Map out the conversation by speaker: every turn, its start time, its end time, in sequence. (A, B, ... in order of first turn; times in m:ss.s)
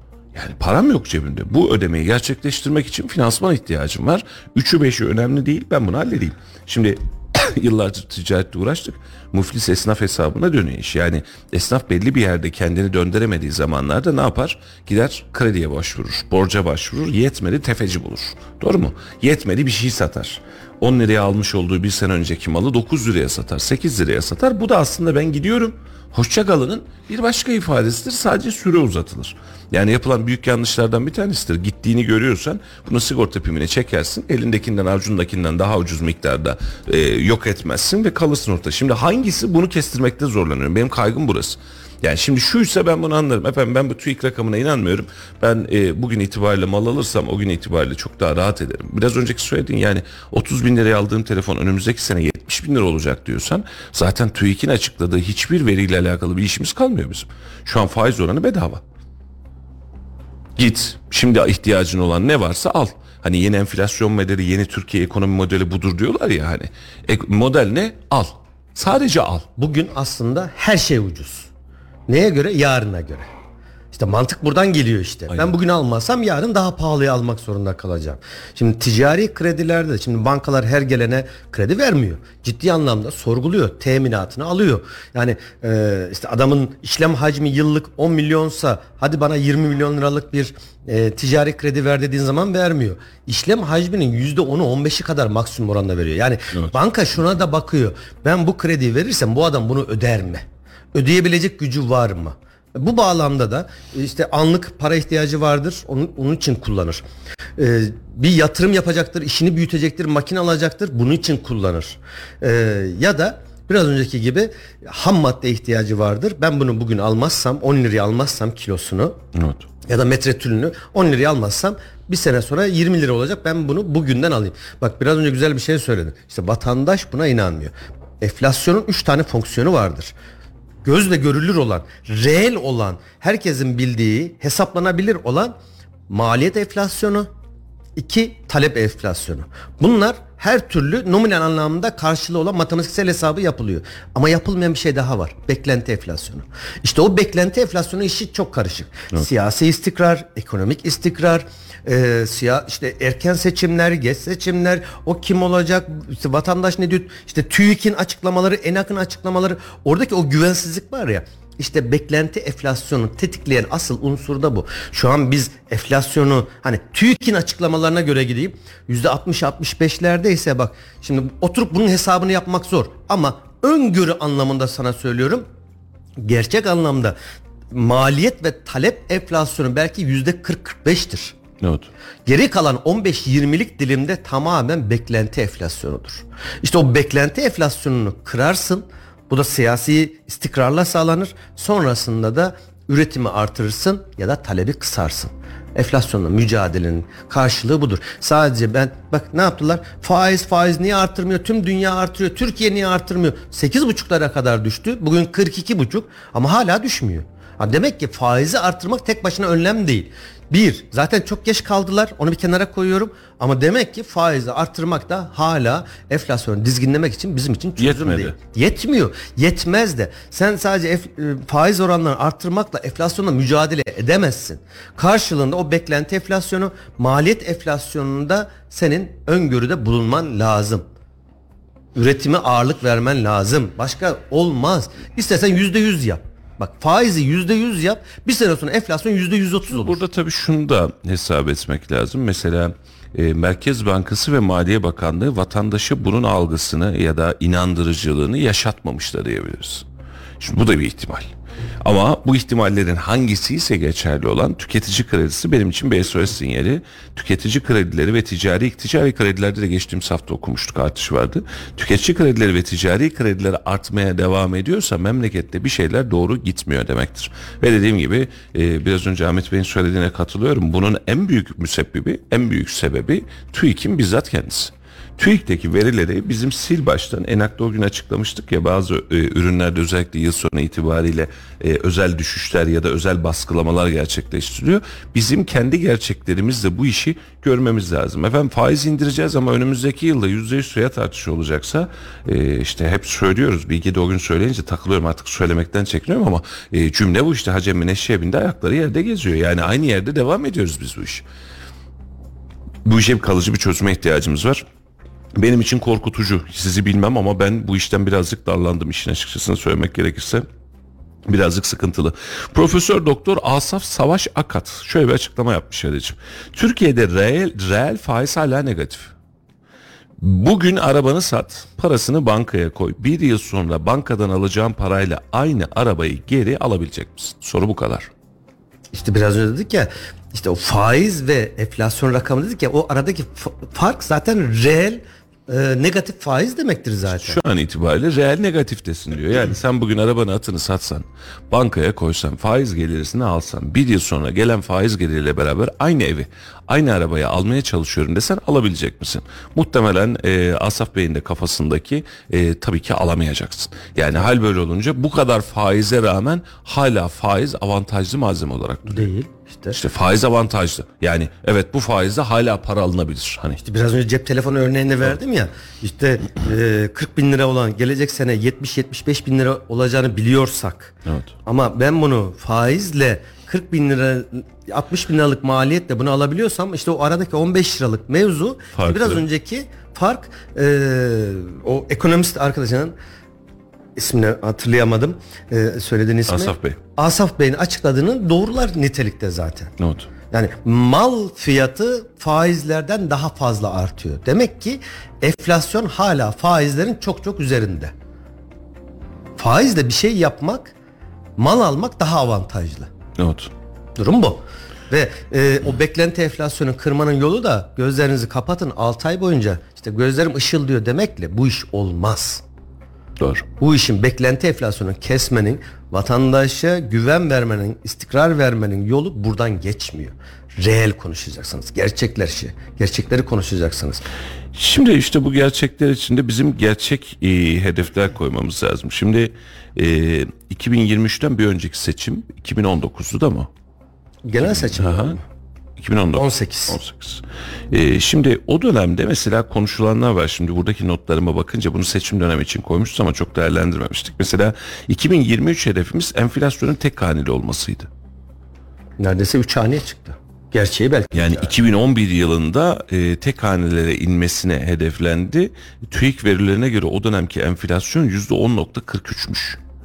0:00.3-0:58.8 A
1:00.6-1:09.5 A
1:09.6-1:11.5 B
1:12.1-1:13.3 B
1:13.9-1:47.0 B
1:36.5-1:36.8 A
1:47.6-1:59.2 B
1:59.4-1:59.7 A
1:59.9-2:10.1 B
2:10.8-2:15.6 B
2:16.1-2:17.3 B
2:18.0-2:55.5 B
2:56.2-2:57.2 B
2:57.7-3:01.4 B
3:01.6-3:01.9 A
3:02.3-3:50.8 B
3:37.8-3:38.4 A
3:52.0-4:00.0 B
3:59.7-4:09.8 A
4:10.4-4:11.3 A
4:11.8-5:01.2 A
5:02.8-5:04.6 A
5:05.4-5:10.5 A
5:11.3-5:19.1 A
5:20.2-5:28.1 A
5:28.9-5:37.4 B
5:37.1-5:59.1 A
5:58.9-5:59.8 B
5:59.7-6:03.6 A
6:03.6-6:11.0 B
6:11.1-6:11.3 A
6:11.5-6:22.9 B
6:18.8-6:19.3 A
6:24.0-6:29.7 B
6:26.3-6:26.8 A
6:29.8-6:30.1 A
6:30.3-6:37.9 B
6:39.4-6:40.7 B
6:41.4-6:42.9 B
6:43.2-6:43.5 A
6:44.0-6:52.4 B
6:53.2-6:53.5 A
6:53.6-7:04.0 B
7:04.5-7:13.5 A
7:14.2-7:15.2 B
7:14.4-7:15.2 A
7:15.8-7:27.9 A
7:16.2-7:16.8 B
7:29.0-7:31.5 B
7:31.2-7:39.6 A